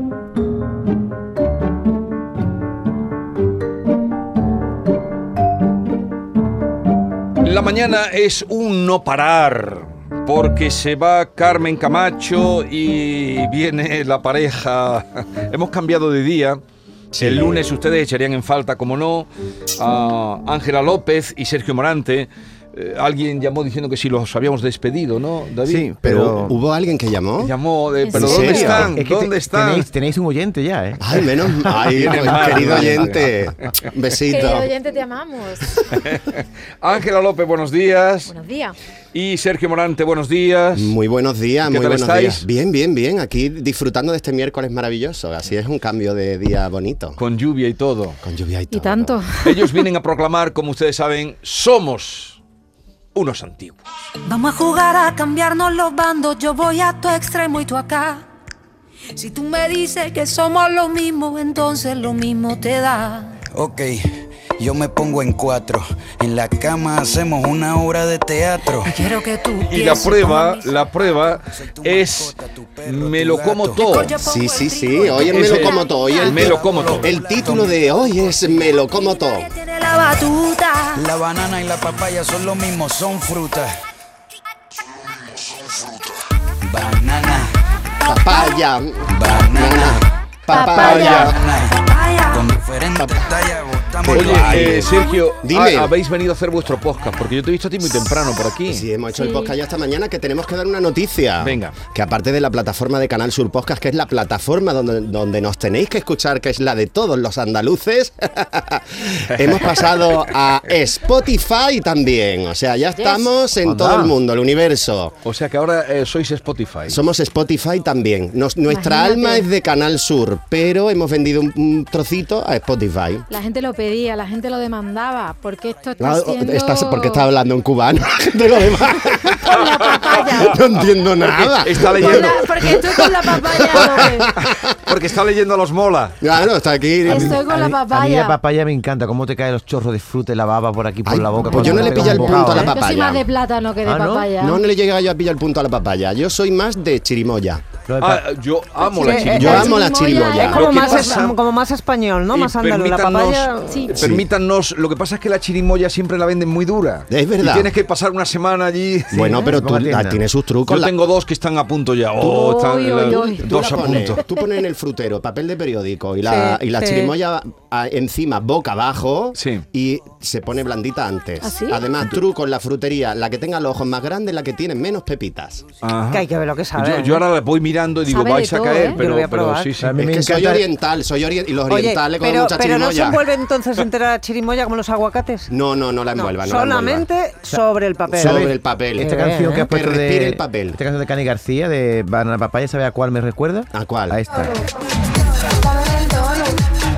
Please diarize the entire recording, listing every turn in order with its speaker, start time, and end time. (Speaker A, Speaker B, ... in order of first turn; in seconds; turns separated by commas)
Speaker A: 7.4-16.6, Speaker B: 17.1-17.6, Speaker A: 17.2-26.5, Speaker C: 25.6-26.6, Speaker B: 26.1-27.5, Speaker A: 27.4-29.9, Speaker D: 28.0-28.4, Speaker B: 28.1-28.9, Speaker C: 28.2-31.8, Speaker B: 31.0-34.7, Speaker A: 31.8-33.4, Speaker D: 34.3-35.8, Speaker A: 35.9-38.3, Speaker D: 38.3-38.8, Speaker A: 39.1-41.0, Speaker B: 40.7-47.2, Speaker A: 41.6-42.5, Speaker A: 47.2-48.2, Speaker B: 48.2-49.2, Speaker D: 48.7-49.8, Speaker A: 49.4-52.4, Speaker A: 53.1-53.8, Speaker E: 54.3-58.3, Speaker E: 59.2-63.4, Speaker F: 63.5-69.0, Speaker E: 68.8-70.9, Speaker A: 69.7-74.1, Speaker F: 71.5-74.0, Speaker E: 73.7-76.5, Speaker B: 74.0-79.5, Speaker A: 75.1-77.1, Speaker F: 76.3-78.7, Speaker E: 78.8-81.0, Speaker F: 81.0-83.7, Speaker F: 86.6-87.5, Speaker B: 88.0-91.4, Speaker F: 89.1-90.0, Speaker E: 90.5-91.1, Speaker D: 90.5-91.1, Speaker A: 90.8-91.4, Speaker F: 90.9-91.8, Speaker E: 91.7-92.5, Speaker F: 92.3-94.8, Speaker B: 93.0-93.3, Speaker B: 94.0-95.9, Speaker A: 94.1-98.8, Speaker E: 94.8-95.2, Speaker B: 98.7-115.2, Speaker D: 99.1-99.5, Speaker A: 101.4-101.8, Speaker A: 109.4-109.7, Speaker D: 113.0-113.3, Speaker C: 113.7-114.2, Speaker A: 115.2-117.0, Speaker B: 116.9-123.3, Speaker D: 118.7-119.5, Speaker D: 123.3-127.3, Speaker B: 126.0-134.8, Speaker D: 129.3-130.6, Speaker A: 129.6-132.5, Speaker D: 132.0-134.3, Speaker A: 134.4-136.2, Speaker B: 136.2-137.4, Speaker C: 137.1-142.8, Speaker D: 137.1-138.4, Speaker B: 141.1-143.3, Speaker D: 141.5-144.6, Speaker C: 143.8-144.3, Speaker B: 144.4-147.7, Speaker C: 147.9-148.3, Speaker A: 148.0-151.4, Speaker D: 148.8-151.3, Speaker G: 149.0-149.5, Speaker B: 149.3-150.7, Speaker G: 150.4-153.9, Speaker A: 152.3-159.4, Speaker D: 153.7-154.0, Speaker B: 154.0-154.3, Speaker B: 157.1-157.7, Speaker C: 159.1-160.2, Speaker B: 159.1-160.9, Speaker A: 160.7-164.2, Speaker D: 162.2-163.5, Speaker B: 163.3-175.7, Speaker G: 166.2-167.2, Speaker A: 169.4-169.7, Speaker D: 171.4-171.9, Speaker A: 175.8-180.0, Speaker G: 176.1-177.2, Speaker D: 178.1-179.0, Speaker G: 178.9-179.7, Speaker C: 179.8-180.7, Speaker B: 180.0-183.3, Speaker G: 181.7-185.5, Speaker B: 185.5-187.1, Speaker G: 186.2-189.7, Speaker B: 188.1-190.8, Speaker C: 188.1-194.6, Speaker B: 193.7-194.2, Speaker D: 194.3-194.7, Speaker D: 195.4-196.7